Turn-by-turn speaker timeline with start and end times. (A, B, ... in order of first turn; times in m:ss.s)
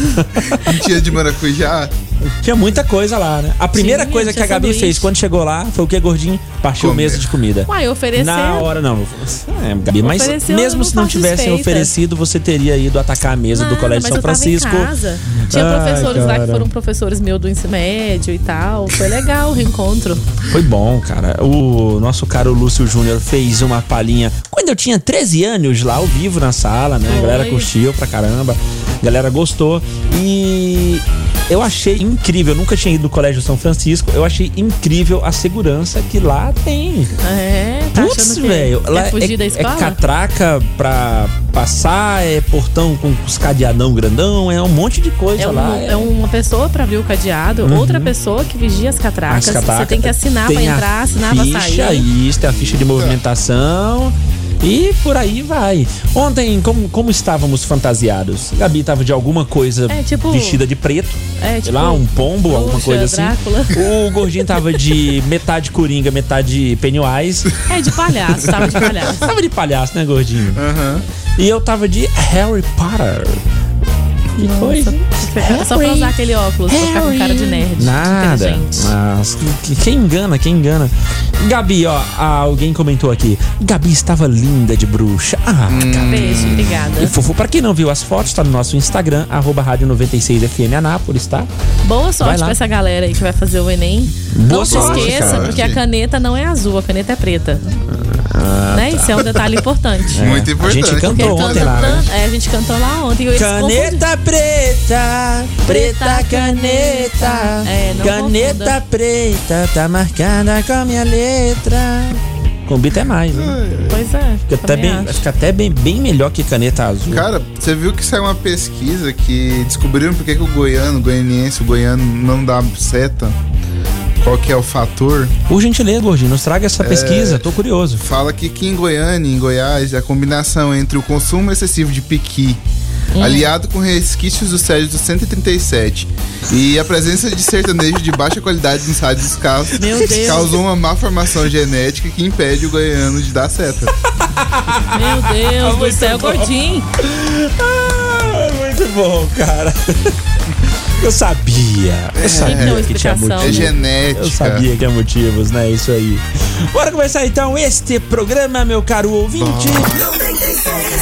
0:00.2-0:00.7 A
0:00.6-0:01.9 B
0:02.4-0:14.9 A
0:03.7-0:05.1 C
0:06.8-0:07.3 B
0:07.7-0:08.7 C
0:10.0-0:11.9 C
0:13.5-0:20.2 C
0:15.5-0:16.7 A
0:20.5-0:37.1 A
0:27.1-0:27.7 C
0:37.2-0:40.0 C
0:38.0-0:46.1 A
0:45.4-0:52.1 C
0:47.6-0:48.1 A
0:49.3-1:07.5 A
0:52.4-0:53.2 B
0:59.9-1:00.6 C
1:01.4-1:03.8 C
1:07.7-1:09.2 C
1:09.2-1:10.6 A
1:10.6-1:11.0 B
1:11.4-1:13.4 A
1:14.4-1:16.2 A
1:14.4-1:18.9 C
1:16.7-1:31.5 A
1:25.7-1:26.9 B
1:26.1-1:27.1 C
1:31.8-1:37.6 C
1:32.2-1:32.6 A
1:34.3-1:35.7 A
1:34.6-1:35.8 B
1:37.9-1:39.3 A
1:38.7-1:40.2 C
1:40.1-1:42.1 A
1:40.2-1:42.1 B
1:41.1-1:44.0 C
1:43.3-1:53.6 A
1:45.7-1:48.8 C
1:53.3-1:54.1 B
1:53.9-1:55.2 C
1:54.5-1:57.3 A
1:57.1-2:03.4 B
2:04.2-2:05.3 B
2:05.5-2:08.0 A
2:06.8-2:07.4 B
2:08.0-2:12.6 B
2:13.2-2:13.5 C
2:13.2-2:23.9 B
2:19.8-2:20.5 A
2:19.8-2:20.5 C
2:24.4-2:30.1 A
2:24.9-2:26.9 C
2:30.9-2:40.0 A
2:32.2-2:32.9 B
2:32.4-2:33.7 C
2:33.4-2:34.7 B
2:39.4-2:40.1 B